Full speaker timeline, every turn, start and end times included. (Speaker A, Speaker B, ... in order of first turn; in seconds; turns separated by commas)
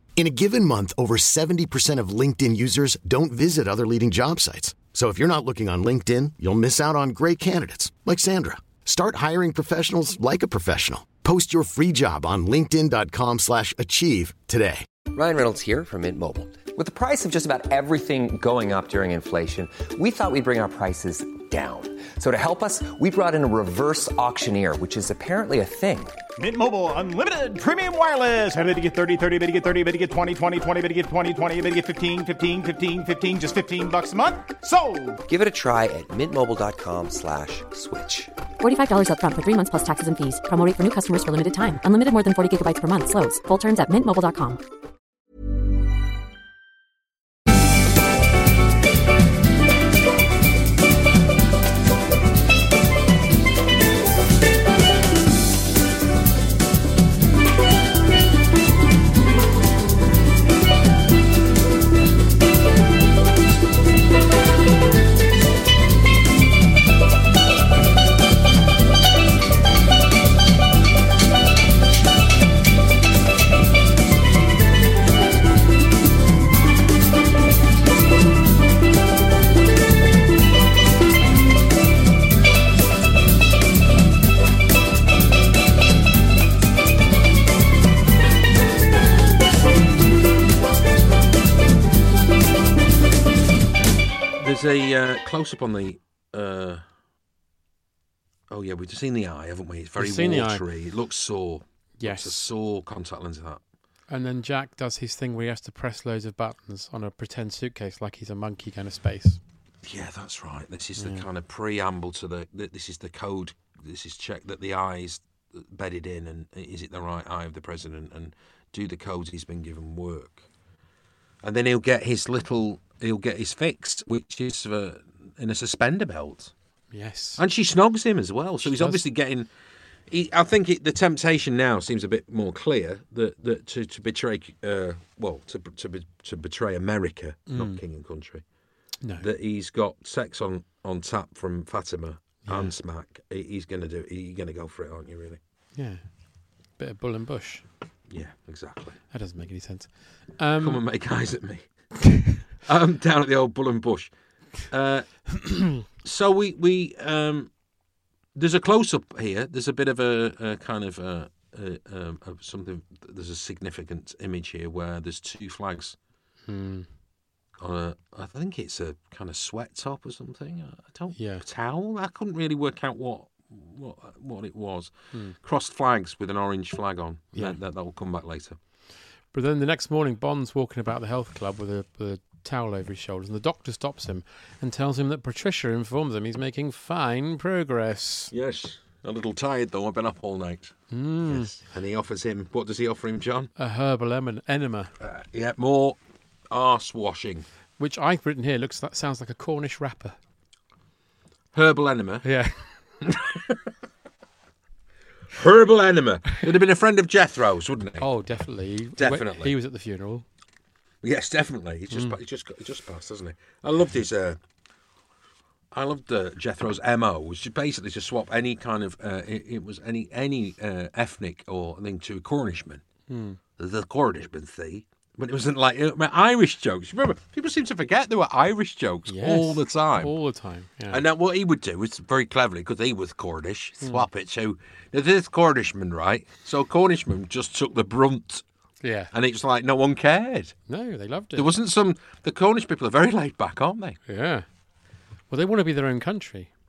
Speaker A: 0.1-14.8, Speaker B: 15.1-26.2, Speaker C: 26.4-35.2, Speaker B: 35.2-38.3, Speaker D: 38.6-44.6, Speaker E: 94.4-96.8, Speaker E: 98.5-103.6, Speaker F: 100.0-100.6, Speaker F: 102.0-102.5, Speaker F: 104.1-109.4, Speaker E: 109.8-120.4, Speaker F: 111.0-111.2, Speaker E: 121.4-126.5, Speaker F: 126.9-127.4, Speaker E: 127.4-129.5, Speaker F: 128.6-129.0, Speaker E: 130.1-138.4, Speaker F: 137.5-137.8, Speaker E: 139.2-145.4, Speaker F: 142.4-142.7, Speaker F: 145.7-146.0, Speaker F: 146.8-147.6, Speaker E: 148.1-149.0, Speaker F: 149.1-150.8, Speaker E: 150.6-151.7, Speaker E: 152.6-154.1, Speaker E: 154.6-157.5, Speaker E: 158.3-165.9, Speaker F: 166.5-166.9, Speaker E: 167.6-178.6, Speaker F: 171.1-171.4, Speaker F: 179.3-188.3, Speaker E: 188.3-193.5, Speaker F: 190.9-191.5, Speaker F: 193.6-194.9, Speaker E: 195.0-196.0, Speaker E: 196.5-197.4, Speaker F: 197.8-200.2, Speaker E: 201.5-202.2, Speaker F: 202.2-202.8, Speaker E: 203.0-203.7, Speaker E: 205.3-208.1, Speaker F: 208.0-210.2, Speaker E: 209.0-209.5, Speaker E: 211.0-214.4, Speaker F: 211.9-212.2, Speaker E: 215.7-222.8, Speaker F: 223.1-223.4, Speaker E: 223.6-230.1, Speaker F: 229.1-231.0, Speaker E: 230.9-238.4, Speaker F: 238.8-239.1, Speaker E: 239.1-240.5, Speaker F: 240.7-241.5, Speaker E: 241.3-244.0, Speaker F: 244.1-244.4, Speaker F: 245.3-246.5